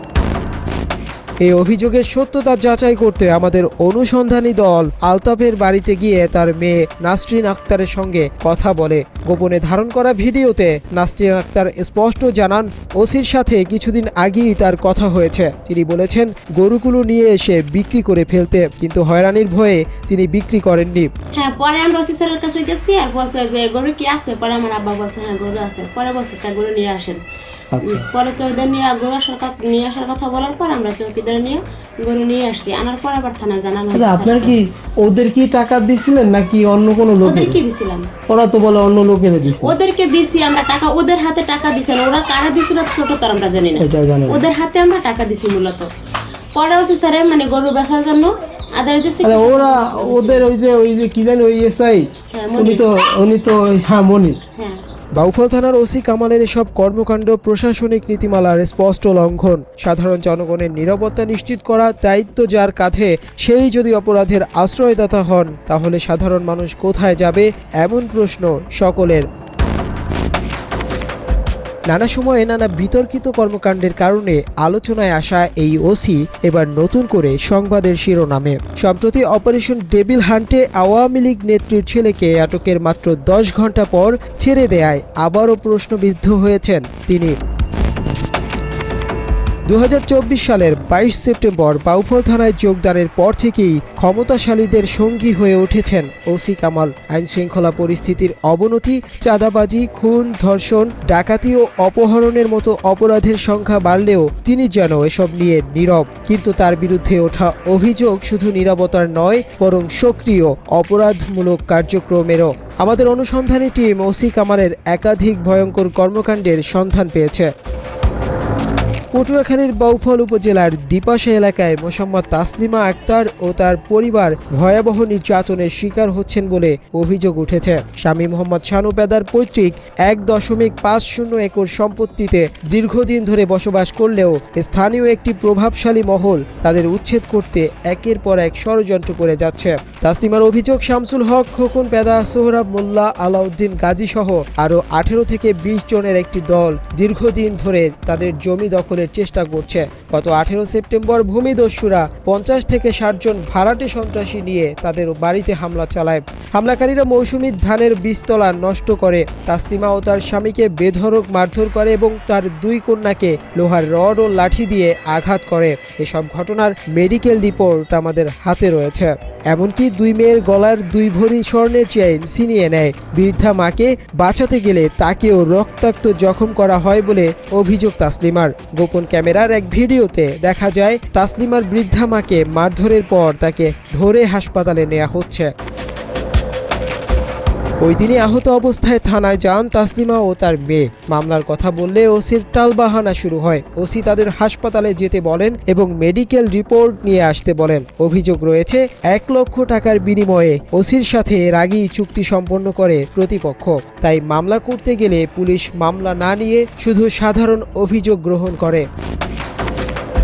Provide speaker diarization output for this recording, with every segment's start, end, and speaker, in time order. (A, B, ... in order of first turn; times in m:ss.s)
0:01.4-0:21.1 A
0:21.4-0:27.2 B
0:27.7-0:28.0 C
0:27.8-0:34.6 B
0:33.9-0:37.6 C
0:37.2-0:38.1 B
0:38.3-0:39.8 C
0:39.6-0:45.9 B
0:43.8-0:44.5 C
0:46.6-0:50.5 B
0:49.2-0:54.4 C
0:52.3-0:52.9 B
0:55.2-1:09.3 A
1:11.9-1:27.4 A
1:29.7-1:57.5 A
1:59.1-3:05.5 A
3:07.8-3:28.9 A